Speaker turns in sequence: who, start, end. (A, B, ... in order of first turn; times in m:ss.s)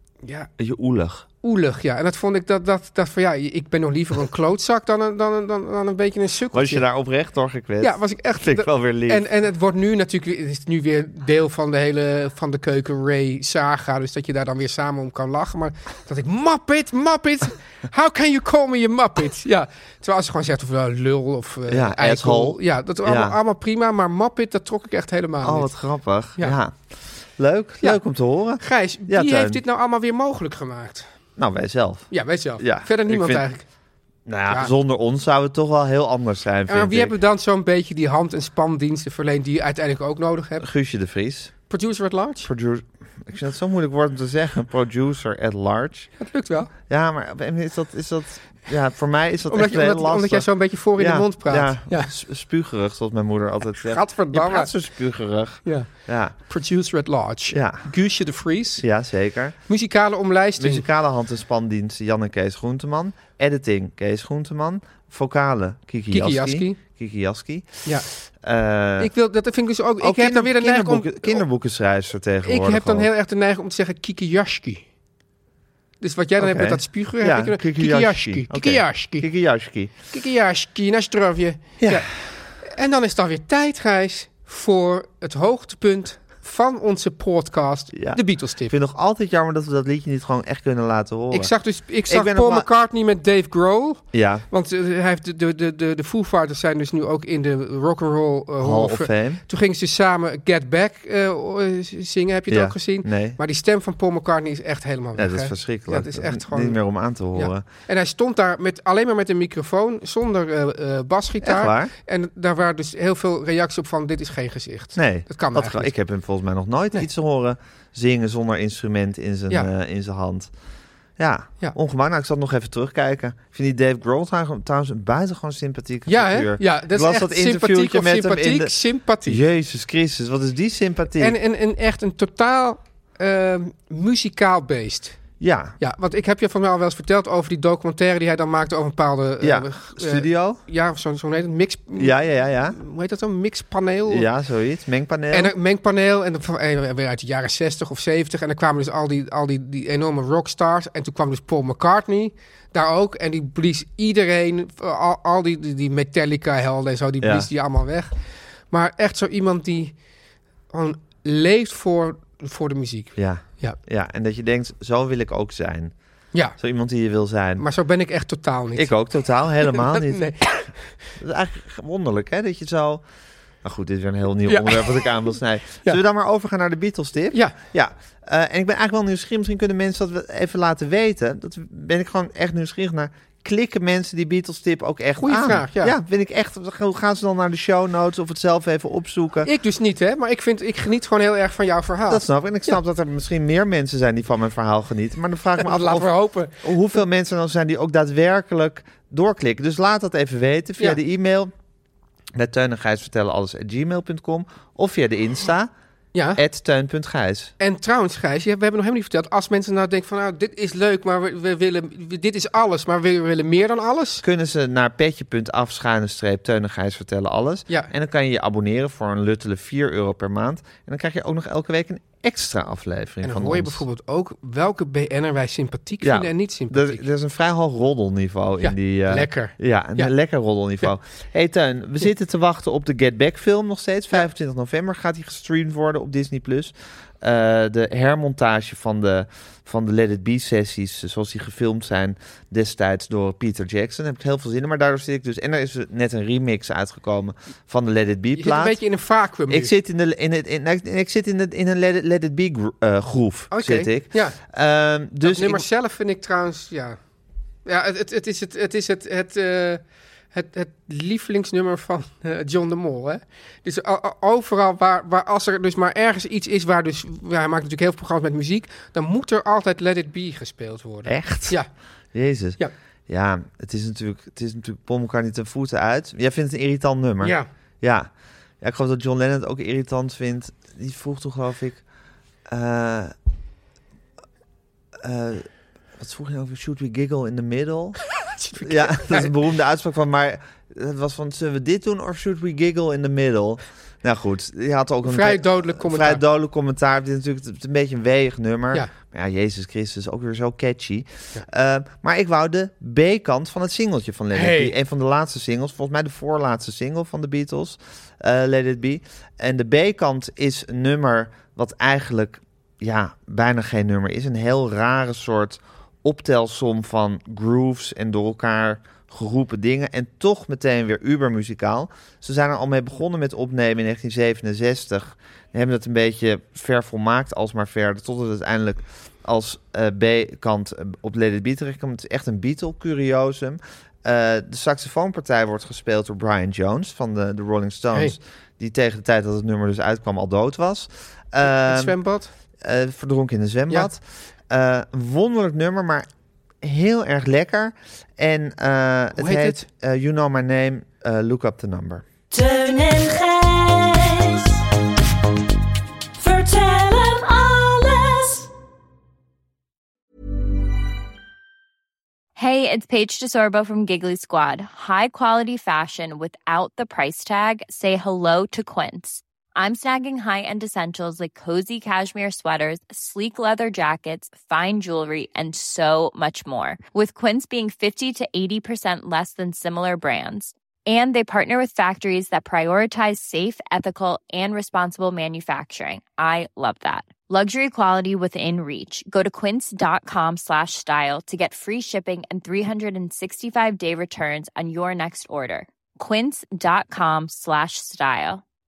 0:00.2-0:00.5 A
0:00.6-0:01.2 B
0:01.4-0:06.8 A
0:06.5-0:09.2 B
0:07.8-0:25.7 A
0:21.7-0:23.4 B
0:25.4-0:26.8 B
0:27.4-0:29.6 B
0:28.6-0:31.1 A
0:31.4-0:33.4 B
0:32.1-0:33.6 A
0:34.2-0:37.1 B
0:36.7-0:40.7 A
0:40.6-0:41.5 B
0:41.7-0:42.5 A
0:42.4-0:46.1 B
0:46.2-0:46.7 A
0:46.9-0:56.3 B
0:49.5-0:52.1 A
0:53.8-0:54.7 A
0:55.6-0:58.8 A
0:57.5-0:57.9 B
0:58.8-0:59.6 B
0:59.7-1:00.8 A
1:00.6-1:07.9 B
1:06.1-1:06.8 A
1:08.4-1:09.1 B
1:09.0-1:11.4 A
1:10.0-1:13.1 B
1:12.4-1:14.8 A
1:16.0-1:19.3 A
1:16.4-1:19.9 B
1:20.1-1:28.7 A
1:21.8-1:22.1 B
1:27.9-1:31.5 B
1:31.3-1:46.8 A
1:32.1-1:32.7 B
1:34.1-1:34.4 B
1:38.6-1:39.4 B
1:42.5-1:43.4 B
1:45.2-1:47.6 B
1:47.3-1:55.9 A
1:51.4-1:51.9 B
1:55.0-2:00.5 B
2:01.2-2:08.7 B
2:06.1-2:09.4 A
2:09.2-2:11.4 B
2:11.2-2:15.2 A
2:15.4-2:15.8 B
2:15.8-2:24.3 A
2:19.4-2:20.6 B
2:22.0-2:22.8 B
2:24.0-2:25.5 B
2:25.3-2:38.1 A
2:37.2-2:37.5 B
2:38.7-2:39.9 A
2:40.7-2:43.8 A
2:43.2-2:45.9 B
2:46.6-2:47.6 B
2:47.6-2:48.9 A
2:48.8-2:50.5 B
2:49.6-2:50.8 A
2:51.2-2:53.0 B
2:53.6-3:09.5 B
2:54.4-2:55.0 A
3:05.2-3:05.9 A
3:09.4-3:12.2 A
3:12.1-3:21.5 B
3:15.6-3:16.6 A
3:22.3-3:25.7 B
3:26.1-3:26.4 A
3:26.4-3:27.5 B
3:27.6-3:34.2 A
3:34.2-3:43.8 B
3:43.2-3:47.0 A
3:46.0-4:08.8 B
3:48.6-3:50.1 A
4:08.3-4:09.7 A
4:09.5-4:15.6 B
4:13.5-4:14.4 A
4:15.2-4:17.0 A
4:17.6-4:19.8 A
4:20.3-4:31.7 A
4:31.0-4:31.6 B
4:32.1-4:38.1 B
4:37.2-4:37.5 A
4:38.6-4:41.8 B
4:42.5-4:43.1 B
4:45.0-5:41.9 B
4:48.4-4:49.3 A
4:55.0-4:56.2 A
5:04.3-5:04.7 A
5:41.4-5:42.3 A
5:42.6-5:46.1 B
5:46.6-5:52.1 B
5:49.2-5:49.6 A
5:52.3-5:54.6 C
5:56.2-5:58.5 C
6:02.4-6:38.4 D